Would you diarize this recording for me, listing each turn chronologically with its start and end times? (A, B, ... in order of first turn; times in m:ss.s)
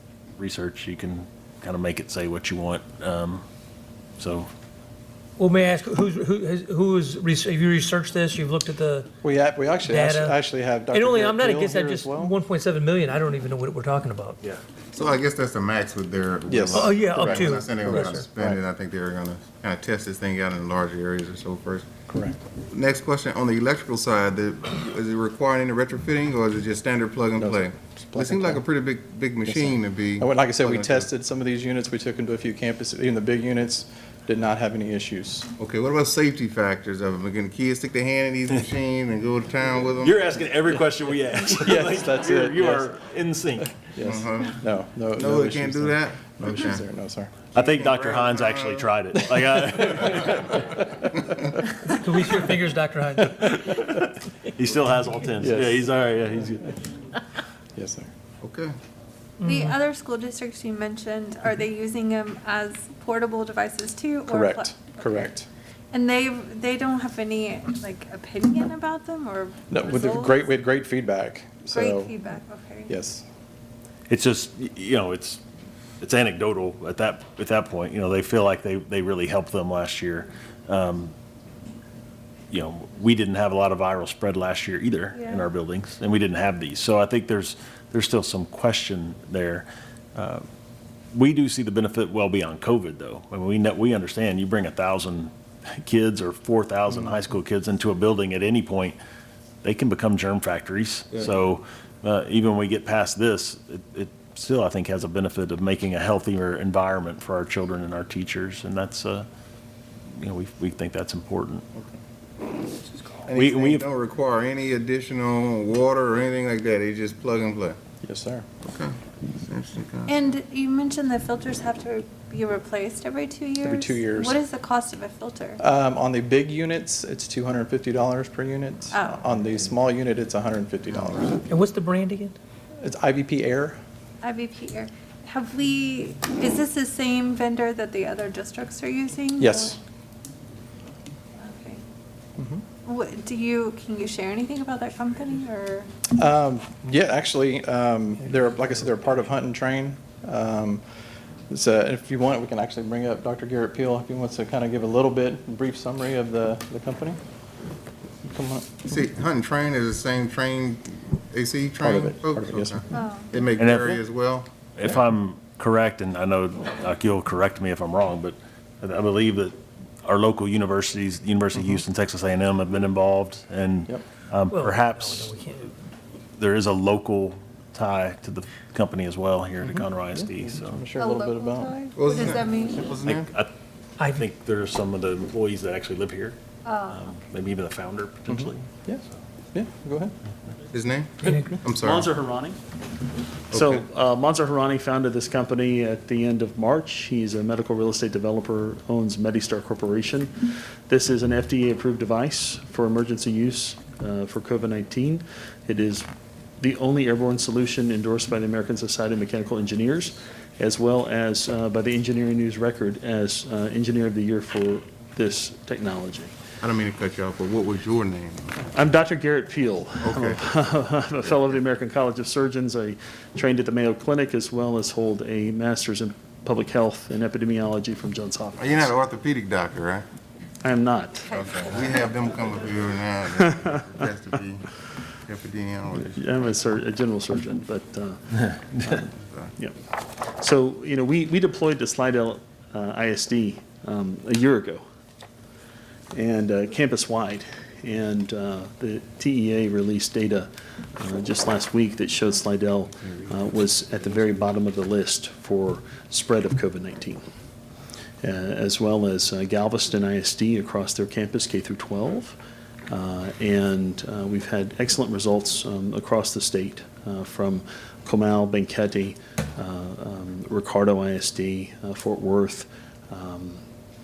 0:00.4-0:03.4 A
0:04.2-0:04.5 A
0:05.4-0:09.1 B
0:09.2-0:12.3 C
0:09.8-0:10.4 B
0:10.9-0:14.4 B
0:14.9-0:21.9 D
0:16.5-0:16.9 C
0:16.7-0:18.3 B
0:17.9-0:18.6 C
0:22.1-0:22.4 C
0:22.6-0:31.1 D
0:27.4-0:28.6 C
0:29.5-0:35.5 C
0:35.6-0:40.2 D
0:40.0-0:43.8 A
0:41.6-0:43.0 C
0:43.8-0:47.4 C
0:44.0-0:44.6 D
0:45.2-0:46.8 D
0:47.5-0:48.9 D
0:47.5-0:50.9 A
0:49.5-0:49.9 C
0:51.9-0:53.7 B
0:53.5-0:56.9 A
0:55.4-0:55.9 C
0:57.8-0:58.1 C
0:58.4-0:58.7 D
0:59.4-0:59.8 B
0:59.4-1:05.3 E
1:04.3-1:05.5 C
1:05.9-1:10.5 E
1:09.7-1:12.2 C
1:11.7-1:13.0 E
1:12.9-1:13.2 C
1:14.1-1:15.4 A
1:16.0-1:21.1 A
1:22.5-1:30.4 A
1:25.2-1:25.4 E
1:31.1-1:39.0 A
1:39.6-1:49.3 A
1:50.2-1:51.6 A
1:53.2-1:57.8 D
1:53.3-1:53.9 A
1:58.0-1:58.5 C
1:58.6-2:00.2 D
2:00.1-2:05.6 E
2:03.6-2:04.4 C
2:05.6-2:11.4 C
2:08.9-2:09.2 E
2:11.5-2:12.4 B
2:12.8-2:13.8 C
2:14.2-2:19.8 E
2:19.4-2:19.8 C
2:21.4-2:21.8 E
2:22.4-2:22.6 C
2:22.8-2:26.0 E
2:26.1-2:30.9 C
2:31.5-2:37.2 C
2:38.2-2:38.9 C
2:38.8-2:44.5 D
2:41.8-2:42.9 C
2:42.9-2:43.3 E
2:43.6-2:44.0 A
2:44.8-2:55.3 A
2:54.5-2:55.7 B
2:56.4-3:00.8 A
3:00.1-3:01.9 C
3:01.0-3:02.9 E
3:02.0-3:03.3 D
3:03.0-3:03.5 A
3:04.1-3:08.7 A
3:06.7-3:07.0 E
3:08.3-3:09.0 C
3:09.5-3:10.2 C
3:10.7-3:12.1 D
3:11.2-3:11.5 B
3:11.7-3:12.6 F
3:13.5-3:26.1 F
3:26.6-3:36.3 F
3:36.6-3:38.6 D
3:38.7-3:49.0 F
3:40.0-3:40.4 D
3:48.6-3:50.0 D
3:50.6-3:51.4 F
3:51.3-3:52.0 E
3:51.3-3:54.7 D
3:53.4-3:53.7 F
3:55.3-3:56.2 D
3:56.0-3:59.8 F
3:59.2-3:59.5 D
4:00.4-4:04.8 F
4:06.1-4:17.3 F
4:18.2-4:22.4 F
4:22.9-4:33.6 F